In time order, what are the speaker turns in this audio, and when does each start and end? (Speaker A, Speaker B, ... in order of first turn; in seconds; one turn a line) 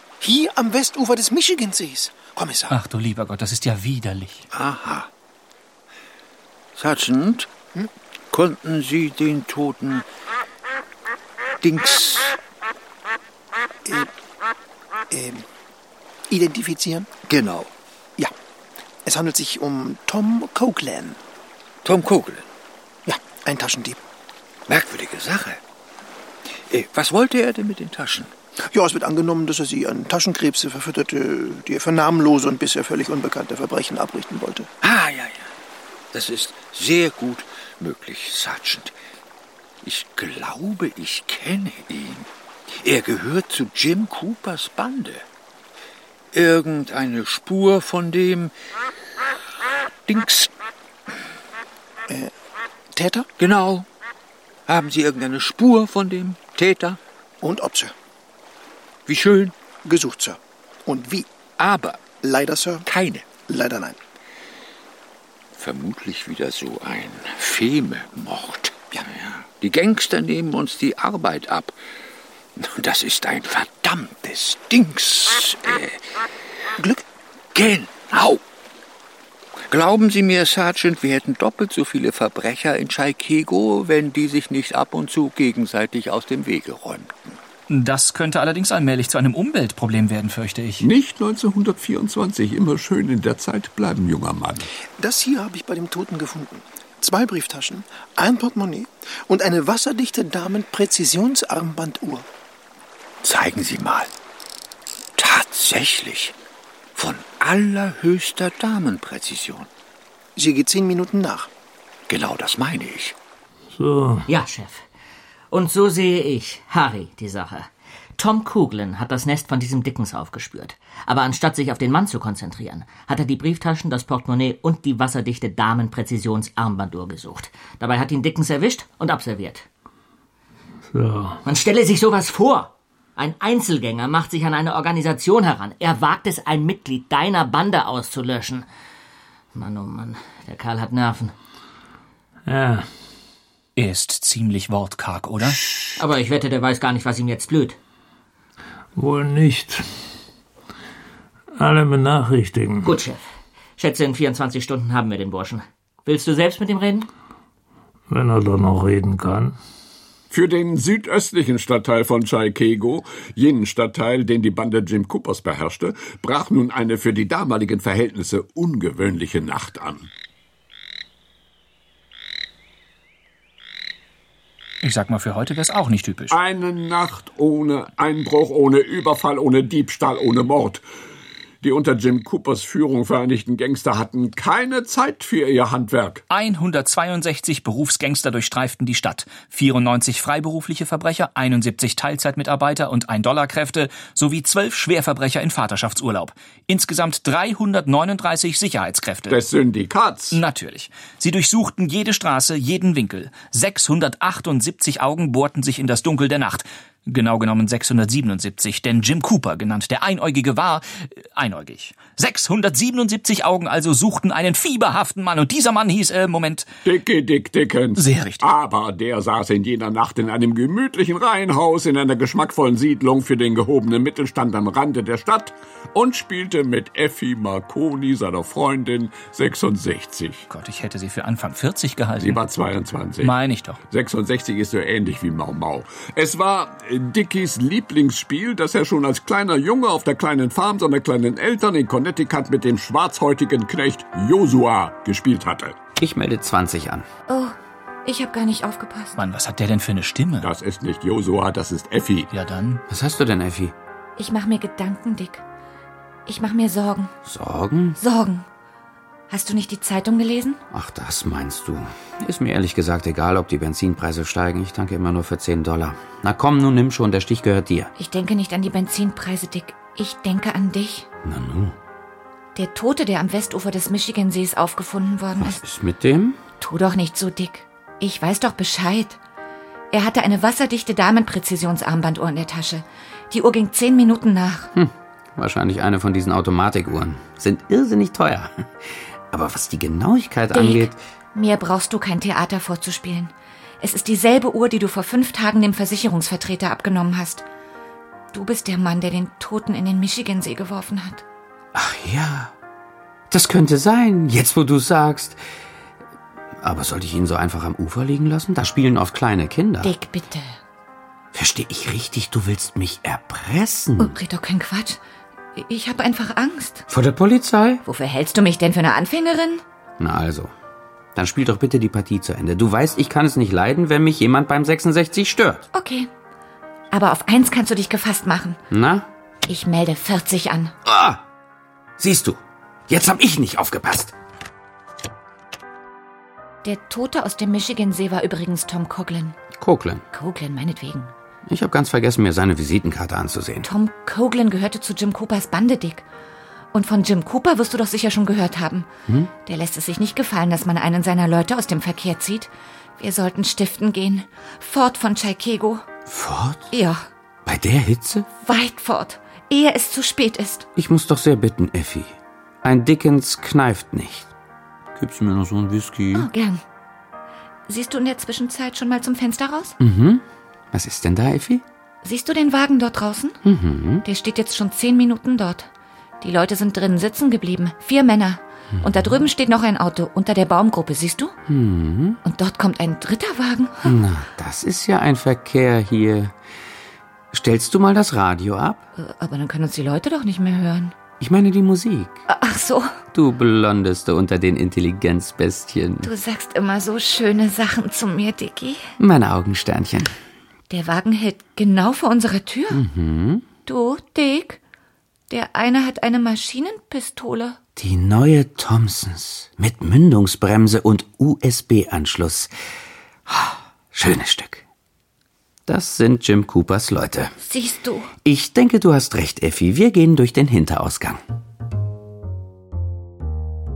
Speaker A: 0.2-2.7
Speaker B: 2.7-4.4
Speaker C: 4.5-5.1
Speaker C: 6.8-7.5
Speaker C: 8.3-10.0
Speaker C: 11.6-12.3
Speaker A: 13.8-14.1
Speaker A: 15.1-15.4
Speaker A: 16.3-17.1
Speaker C: 17.2-17.7
Speaker A: 19.0-21.2
Speaker C: 21.8-22.5
Speaker A: 23.1-23.9
Speaker C: 24.7-25.6
Speaker C: 26.5-28.3
Speaker A: 28.6-34.7
Speaker C: 34.8-35.5
Speaker C: 36.1-38.9
Speaker C: 39.8-45.2
Speaker C: 46.3-48.5
Speaker C: 50.1-50.5
Speaker A: 52.9-53.2
Speaker C: 53.4-53.9
Speaker C: 54.7-57.0
Speaker A: 57.4-57.9
Speaker C: 59.1-59.5
Speaker A: 59.8-61.3
Speaker C: 61.5-62.1
Speaker A: 62.2-62.8
Speaker C: 62.8-63.4
Speaker A: 63.4-64.0
Speaker C: 65.5-71.8
Speaker C: 72.6-76.0
Speaker A: 76.8-77.0
Speaker C: 77.5-78.4
Speaker C: 79.7-87.3
Speaker B: 87.7-90.8
Speaker D: 90.8-94.7
Speaker A: 95.0-102.2
Speaker C: 103.2-104.1
Speaker C: 105.2-106.3
Speaker C: 106.9-109.7
Speaker A: 110.3-111.5
Speaker C: 112.1-113.2
Speaker E: 113.7-114.1
Speaker F: 114.3-114.8
Speaker F: 115.5-129.6
Speaker E: 130.9-131.3
Speaker F: 131.4-138.7
Speaker F: 139.5-141.3
Speaker E: 142.5-142.8
Speaker B: 143.8-145.6
Speaker F: 146.0-147.8
Speaker E: 148.9-149.8
Speaker E: 151.6-152.8
Speaker F: 152.8-153.2
Speaker F: 153.8-157.1
Speaker E: 158.1-159.5
Speaker D: 160.3-170.1
Speaker B: 174.8-176.3
Speaker D: 176.3-180.8
Speaker D: 181.6-186.2
Speaker B: 186.3-199.4
Speaker D: 199.3-200.4
Speaker B: 200.3-216.7
Speaker D: 216.8-230.4
Speaker B: 217.9-218.5
Speaker B: 230.5-232.4
Speaker D: 232.2-233.3
Speaker B: 233.2-233.8
Speaker D: 233.9-245.8
Speaker G: 246.0-247.1
Speaker H: 247.3-247.5
Speaker H: 248.0-249.2
Speaker B: 249.1-250.5
Speaker D: 250.4-252.3
Speaker B: 252.3-252.8
Speaker G: 252.9-253.7
Speaker H: 254.2-255.4
Speaker H: 256.3-257.1
Speaker G: 257.2-258.0
Speaker H: 258.0-258.4
Speaker H: 259.3-260.6
Speaker G: 260.7-267.9
Speaker H: 268.0-271.1
Speaker G: 271.2-271.7
Speaker H: 272.5-275.6
Speaker G: 275.4-276.4
Speaker H: 276.6-279.2
Speaker H: 279.9-284.7
Speaker G: 284.7-288.7
Speaker G: 289.3-291.0
Speaker H: 290.5-297.5
Speaker H: 298.3-301.2
Speaker G: 301.7-302.5
Speaker G: 303.3-305.4
Speaker G: 306.6-309.9
Speaker H: 309.8-310.6
Speaker G: 311.3-314.2
Speaker H: 314.0-315.0
Speaker H: 315.6-316.9
Speaker G: 316.9-317.8
Speaker H: 317.8-319.6
Speaker G: 320.0-320.5
Speaker G: 321.1-325.6
Speaker H: 325.7-326.1
Speaker H: 326.9-328.6
Speaker G: 328.7-329.1
Speaker H: 329.5-330.7
Speaker G: 330.8-331.2
Speaker G: 332.0-334.1
Speaker H: 336.6-339.4
Speaker G: 339.6-340.0
Speaker H: 340.1-341.1
Speaker G: 341.5-343.7
Speaker H: 343.6-346.0
Speaker H: 346.7-348.9
Speaker H: 349.4-355.8
Speaker G: 356.1-356.7
Speaker H: 356.7-357.0
Speaker G: 357.4-358.3
Speaker H: 358.4-360.6
Speaker G: 360.8-364.3
Speaker G: 364.9-366.3
Speaker H: 366.1-366.6
Speaker H: 367.7-369.8
Speaker G: 369.8-371.6
Speaker H: 372.0-373.4
Speaker G: 373.4-374.0
Speaker H: 374.0-375.7
Speaker H: 376.2-381.3
Speaker G: 381.5-382.2
Speaker H: 382.2-383.9
Speaker G: 383.8-386.3
Speaker G: 387.3-388.8
Speaker H: 388.9-390.9
Speaker G: 391.2-392.2
Speaker H: 392.3-392.9
Speaker G: 393.1-396.1
Speaker H: 396.0-398.8
Speaker G: 399.0-400.1
Speaker H: 400.7-402.8
Speaker G: 402.7-403.5
Speaker H: 403.6-404.6
Speaker H: 405.3-407.6
Speaker G: 407.8-412.5
Speaker G: 413.3-414.6
Speaker G: 415.7-417.4
Speaker H: 417.4-418.1
Speaker G: 418.2-421.2